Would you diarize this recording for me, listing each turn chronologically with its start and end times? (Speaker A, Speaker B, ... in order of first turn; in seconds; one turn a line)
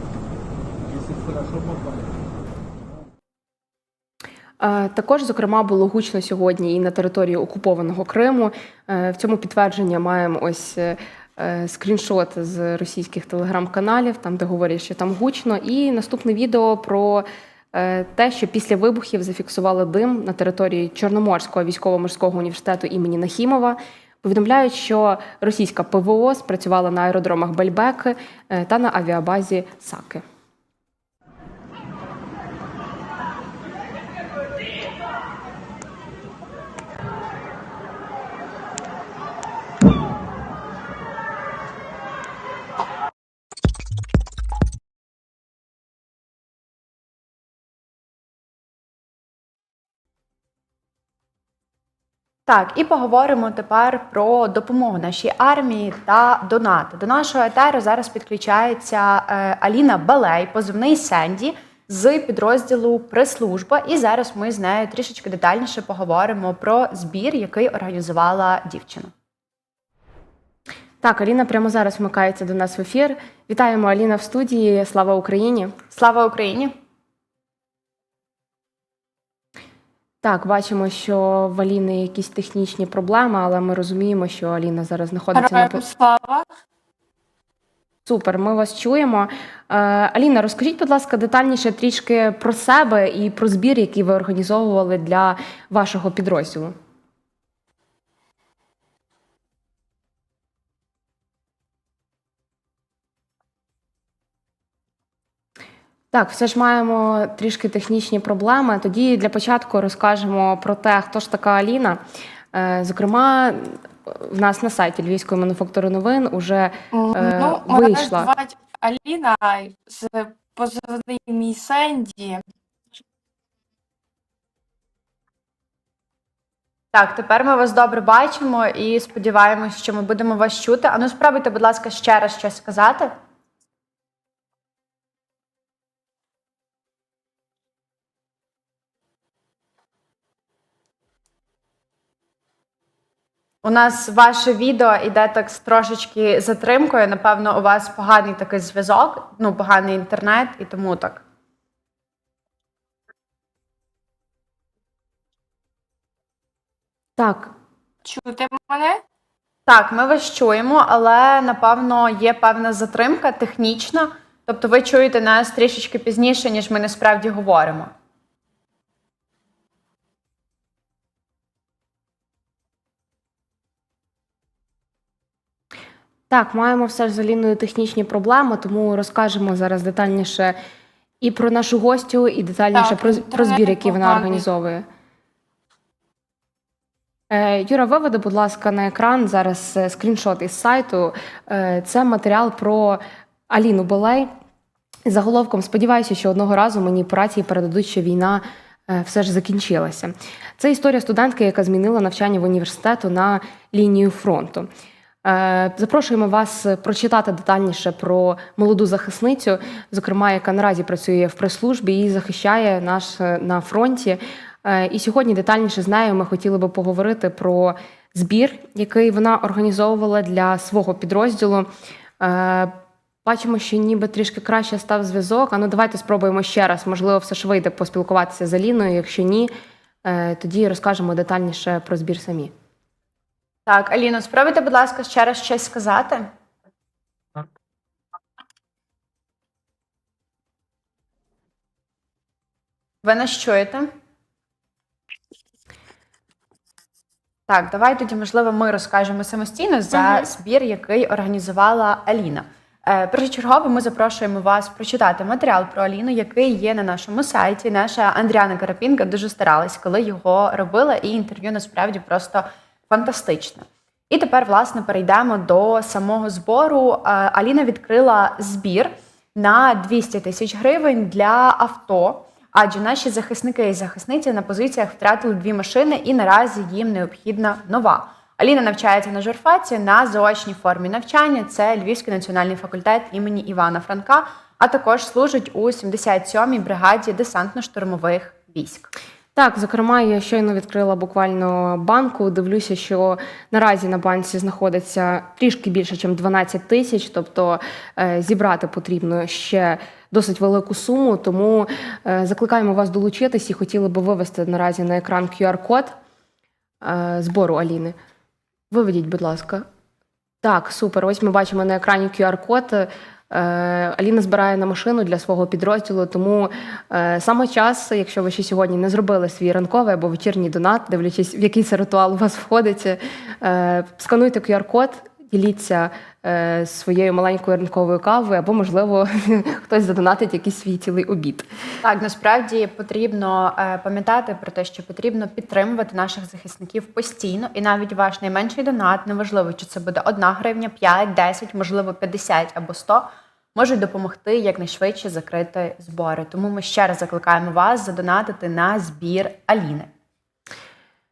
Speaker A: 4.6-30.2
Speaker B: 52.5-69.1
Speaker A: 71.0-75.7
Speaker B: 75.9-76.7
Speaker A: 80.2-85.8
Speaker C: 85.3-86.5
Speaker A: 88.0-96.7
Speaker A: 106.1-112.0
Speaker A: 112.5-118.3
Speaker C: 116.9-122.4
Speaker B: 126.9-133.1
Speaker B: 143.6-151.2
Speaker A: 157.2-157.5
Speaker C: 158.0-159.0
Speaker B: 159.7-167.9
Speaker A: 176.3-180.6
Speaker A: 181.2-184.8
Speaker C: 182.7-184.4
Speaker A: 187.3-194.3
Speaker A: 195.1-204.7
Speaker A: 205.2-221.7
Speaker A: 222.2-229.5
Speaker A: 230.0-232.5
Speaker B: 233.7-236.3
Speaker B: 243.0-243.9
Speaker B: 247.5-288.9
Speaker A: 289.4-305.9
Speaker A: 306.8-307.9
Speaker A: 308.7-309.6
Speaker A: 310.4-331.4
Speaker B: 331.8-349.9